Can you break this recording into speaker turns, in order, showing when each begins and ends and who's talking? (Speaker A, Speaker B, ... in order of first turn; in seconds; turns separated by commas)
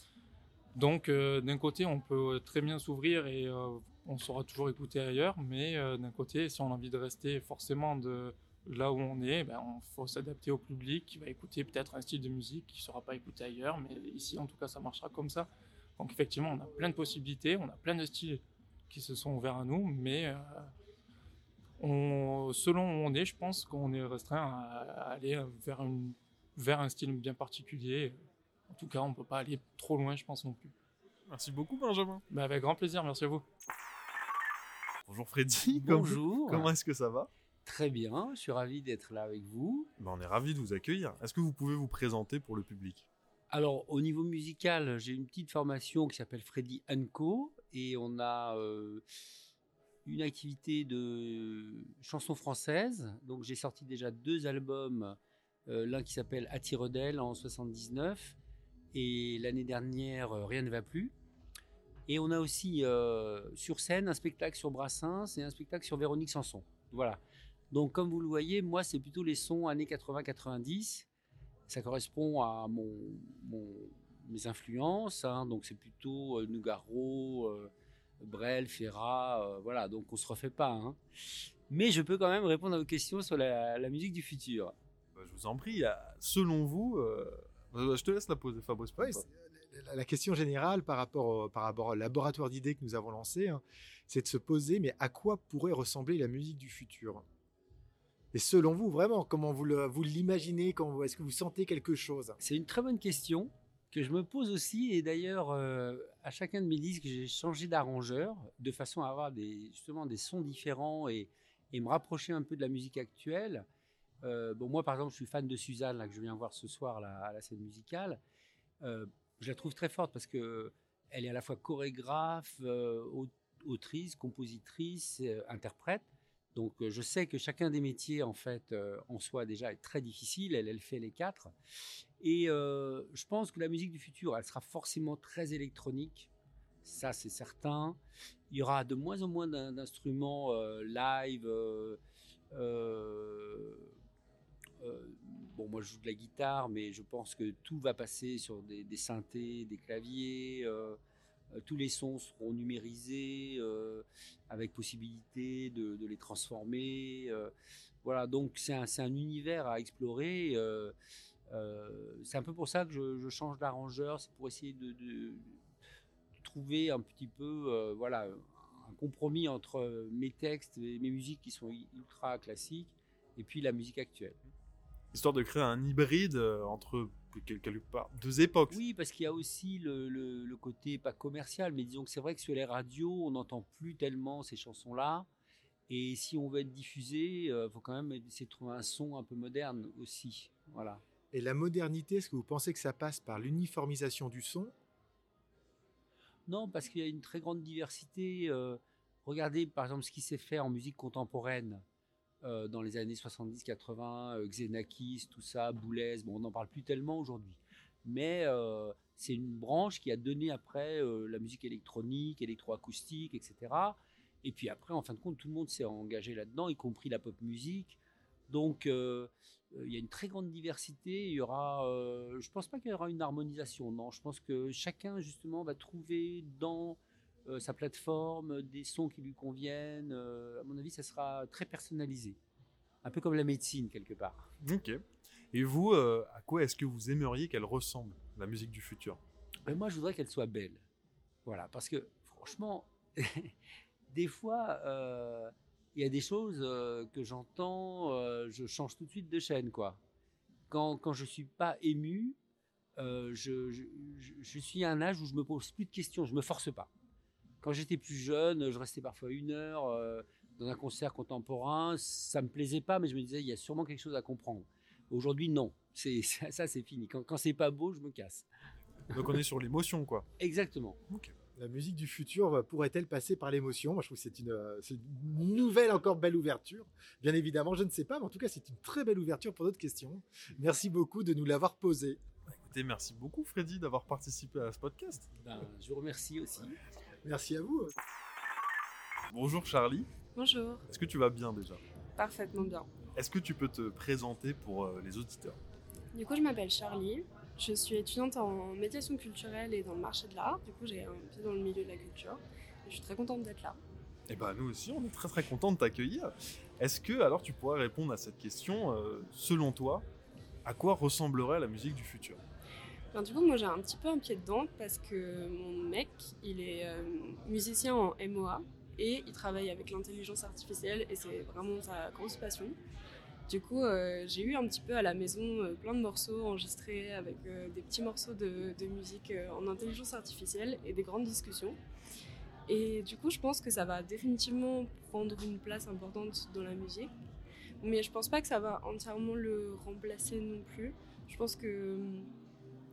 Speaker A: 0.7-20.7, Speaker A: 21.8-28.2, Speaker A: 28.7-30.7, Speaker B: 31.3-32.2, Speaker A: 32.3-33.4, Speaker B: 35.1-37.3, Speaker C: 35.7-36.7, Speaker C: 37.6-39.9, Speaker B: 40.0-43.1, Speaker C: 43.5-49.0, Speaker C: 50.0-58.4, Speaker C: 58.9-61.1, Speaker C: 62.1-67.2, Speaker C: 67.7-71.0, Speaker C: 71.7-81.0, Speaker C: 81.7-84.7, Speaker B: 85.1-89.2, Speaker D: 89.0-97.2, Speaker D: 98.3-102.4, Speaker C: 102.4-113.7, Speaker C: 114.2-118.2, Speaker C: 118.8-131.5, Speaker C: 132.2-136.3, Speaker C: 136.8-138.0, Speaker C: 138.5-142.0, Speaker C: 142.5-143.9, Speaker C: 144.8-151.0, Speaker C: 151.5-160.9, Speaker C: 161.5-165.6, Speaker C: 166.4-174.4, Speaker B: 175.1-178.8, Speaker C: 178.7-185.3, Speaker C: 185.9-191.0, Speaker D: 191.3-194.7, Speaker C: 196.5-201.8, Speaker C: 202.4-232.4, Speaker C: 233.0-234.5, Speaker B: 234.6-235.0, Speaker B: 235.5-239.2, Speaker C: 239.7-240.8, Speaker C: 241.4-243.5, Speaker C: 244.1-250.0, Speaker C: 250.7-252.4, Speaker C: 253.0-256.9, Speaker C: 257.6-268.5, Speaker B: 269.1-270.3, Speaker C: 270.4-271.0, Speaker B: 271.1-271.3, Speaker D: 271.5-282.2, Speaker B: 282.5-285.3, Speaker C: 285.4-286.8, Speaker D: 287.2-287.9, Speaker B: 289.3-290.1, Speaker E: 290.3-290.8, Speaker B: 290.9-291.8, Speaker E: 292.2-292.9, Speaker B: 293.1-295.6, Speaker E: 296.1-303.8, Speaker B: 304.3-310.0, Speaker B: 310.6-312.4, Speaker E: 313.1-322.8, Speaker E: 323.5-331.8, Speaker E: 332.7-337.1, Speaker E: 337.8-342.3